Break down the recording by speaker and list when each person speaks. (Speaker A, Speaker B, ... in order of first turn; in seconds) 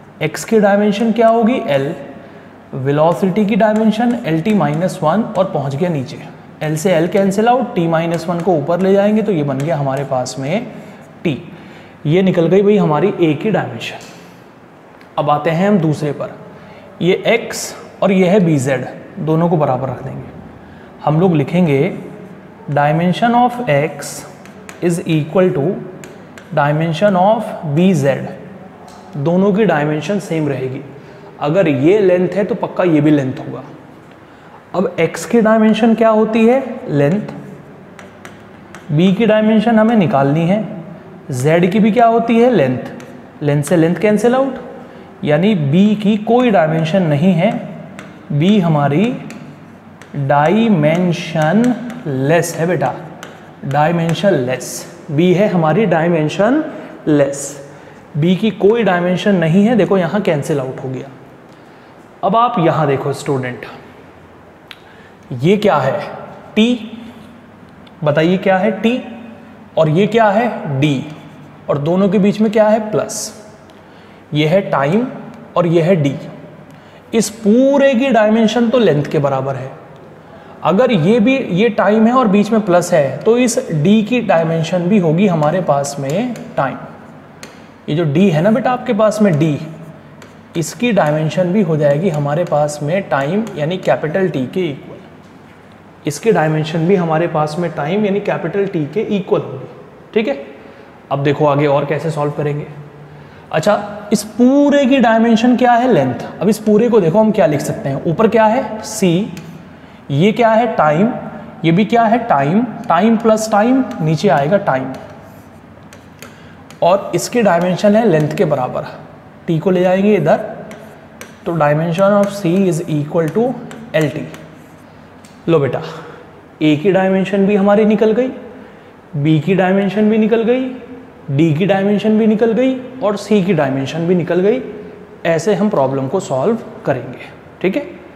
Speaker A: 0.2-2.0, 2.7-10.7, 11.2-11.5, 12.0-14.0, 15.2-16.4, 17.0-20.3, 21.0-22.1, 22.7-24.3, 24.8-25.9, 26.5-28.3, 29.1-30.9, 31.4-33.7, 34.7-37.4, 38.9-44.6, 45.2-49.2, 50.1-53.0, 53.6-57.6, 58.1-61.1, 62.2-63.7, 65.3-67.1, 68.0-69.2, 69.8-71.1, 71.7-73.4, 74.3-76.3, 77.1-79.7, 80.6-86.9, 87.9-89.7, 90.5-95.0, 96.0-100.5, 101.1-102.7, 103.5-109.4, 110.1-115.0, 116.8-118.9, 119.5-120.6, 121.4-124.3, 125.5-125.8, 126.6-128.3, 129.1-137.9